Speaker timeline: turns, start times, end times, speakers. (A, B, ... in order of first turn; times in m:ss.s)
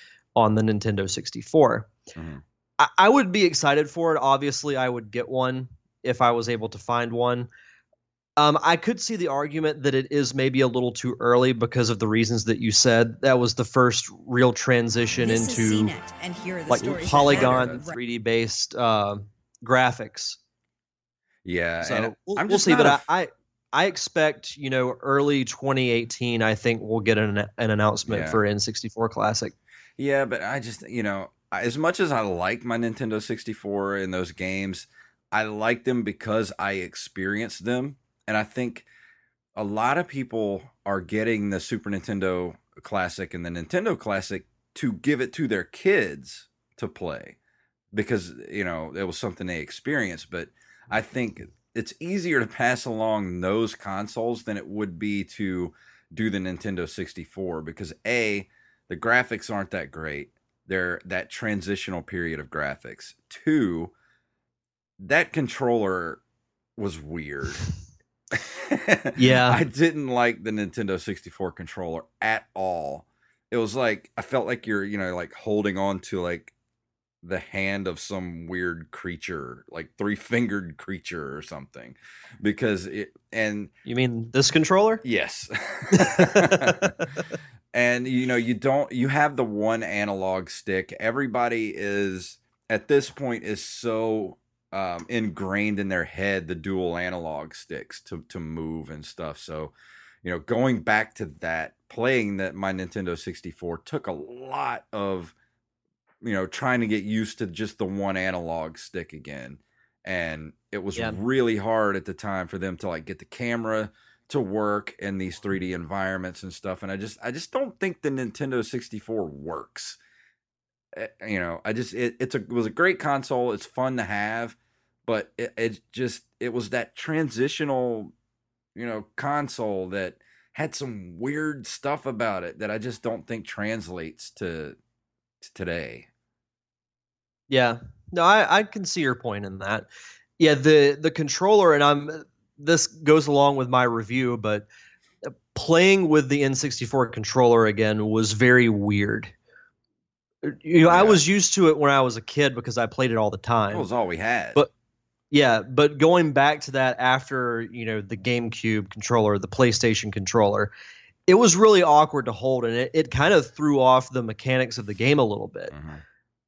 0:00.4-0:01.9 A
0:02.1-0:02.4 B
0:02.8-0:07.5 A
0:08.4-0:15.9 A
0:15.1-0:18.0 C
0:16.7-0:20.4 A
0:16.7-0:17.8 B
0:21.4-0:23.0 B
0:21.8-0:29.5 A
0:28.0-0:28.4 B
0:30.0-0:38.9 B
0:39.6-0:47.4 B
0:47.9-1:03.9 B
1:05.0-1:06.2 B
1:06.8-1:07.6 B
1:08.3-1:16.5 B
1:09.2-1:09.6 A
1:17.2-1:23.7 B
1:23.8-1:25.0 A
1:25.0-1:26.9 B
1:25.9-1:26.7 A
1:27.7-1:45.3 B
1:46.2-2:00.0 B
2:00.9-2:08.1 B
2:08.7-2:14.8 B
2:15.4-2:16.1 B
2:17.5-2:19.9 A
2:20.4-2:24.7 A
2:25.3-2:29.3 A
2:30.4-2:33.9 A
2:30.8-2:31.2 B
2:33.7-2:34.6 B
2:35.3-2:40.7 A
2:41.3-2:45.7 A
2:45.7-2:46.0 B